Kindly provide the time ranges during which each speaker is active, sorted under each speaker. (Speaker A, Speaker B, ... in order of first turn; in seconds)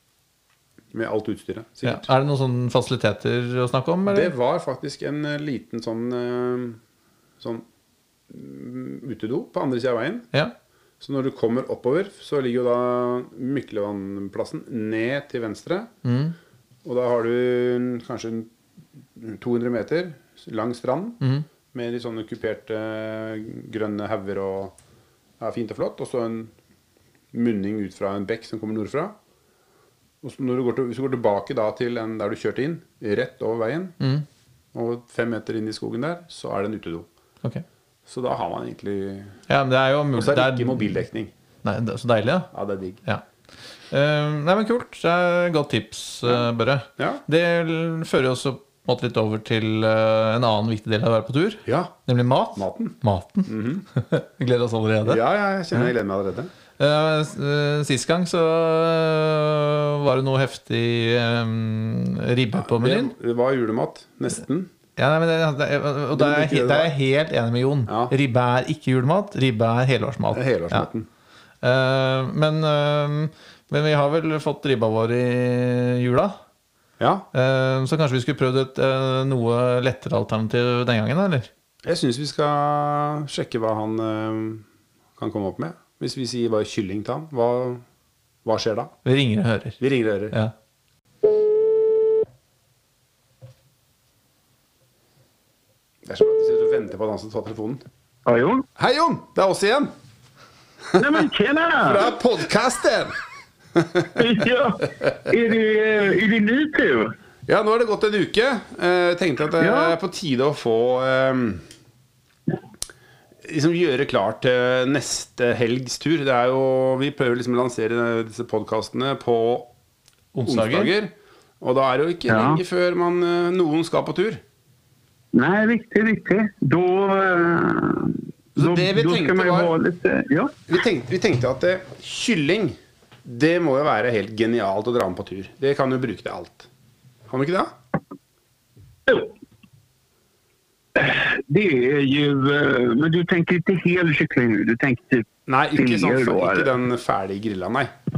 Speaker A: 0.9-2.1, 4.1-6.8, 7.4-7.6, 8.3-10.3, 11.0-15.9, 16.8-18.5, 19.1-21.2, 21.7-24.7, 25.4-26.5, 27.3-29.1, 30.2-34.0, 34.7-37.1, 38.1-39.4, 40.1-41.3, 42.5-43.0, 47.0-47.2, 51.6-51.9, 52.5-53.9, 55.0-56.5, 62.6-64.7, 66.1-66.9, 67.9-68.1, 70.3-71.1, 77.0-77.2, 81.8-84.7, 85.2-87.8, 88.4-88.9, 89.8-90.3, 96.0-97.8, 98.8-99.9, 101.8-103.1, 103.8-104.2, 107.5-111.6, 113.4-119.7, 120.4-124.4, 128.6-129.7, 130.7-136.7, 137.3-137.8, 145.5-147.9
Speaker B: 1.8-4.3, 16.0-16.3, 34.0-34.2, 39.5-41.0, 41.6-42.5, 43.9-55.2, 56.8-63.1, 65.0-70.9, 71.6-76.4, 77.3-81.5, 89.0-89.8, 120.3-120.9
Speaker C: 98.2-98.7, 101.0-102.1, 104.1-107.1, 109.6-109.9, 122.3-122.6, 125.3-130.6, 139.1-139.3, 140.9-146.7